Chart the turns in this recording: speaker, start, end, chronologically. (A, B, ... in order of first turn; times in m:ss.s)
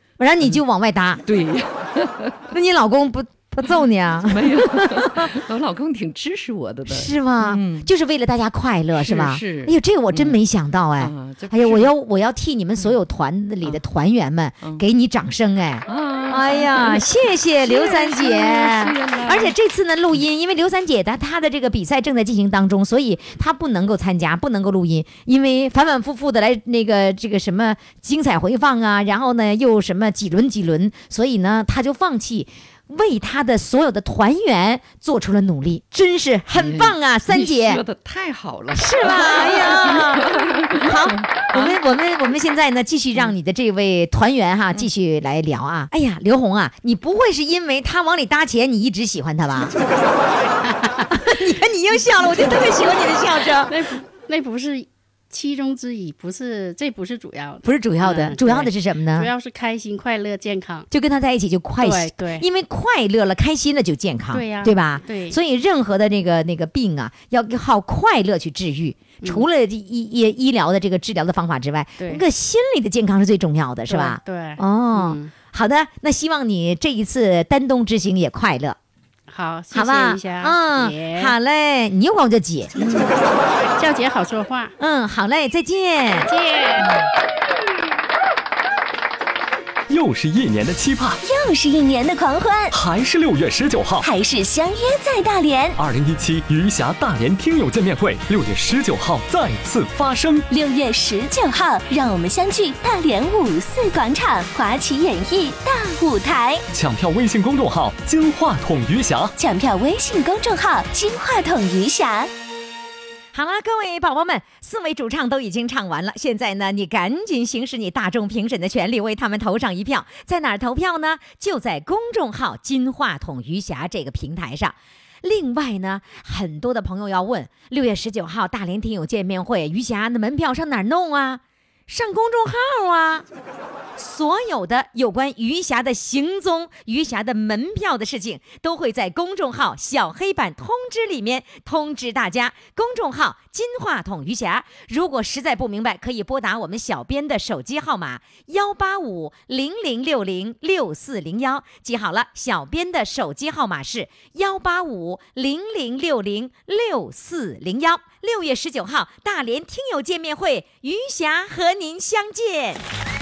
0:00.2-0:01.2 A
0:01.2-0:02.4 B
0:02.5-0:05.4 A
0:04.2-0:07.9 B
0:06.9-0:37.8 A
0:09.0-0:10.4 B
0:11.0-0:11.9 B
0:12.8-0:13.0 B
0:15.9-0:19.6 B
0:36.6-0:41.8 B
0:38.7-0:49.8 A
0:50.7-0:51.2 C
0:51.1-0:53.8 A
0:53.7-1:00.9 C
0:57.6-0:59.3 A
1:00.9-1:18.8 A
1:01.8-1:02.5 C
1:04.3-1:05.4 C
1:09.2-1:09.5 C
1:13.9-1:15.3 C
1:19.3-1:21.4 C
1:19.7-1:22.7 A
1:22.8-1:24.8 C
1:24.8-1:26.3 A
1:26.1-1:26.9 C
1:29.9-1:31.2 D
1:31.2-1:32.7 E
1:32.7-1:34.1 D
1:34.0-1:35.8 E
1:35.8-1:40.4 D
1:40.5-1:46.6 E
1:46.7-1:49.3 D
1:49.4-1:52.3 E
1:53.3-2:13.3 A
2:14.0-2:42.8 A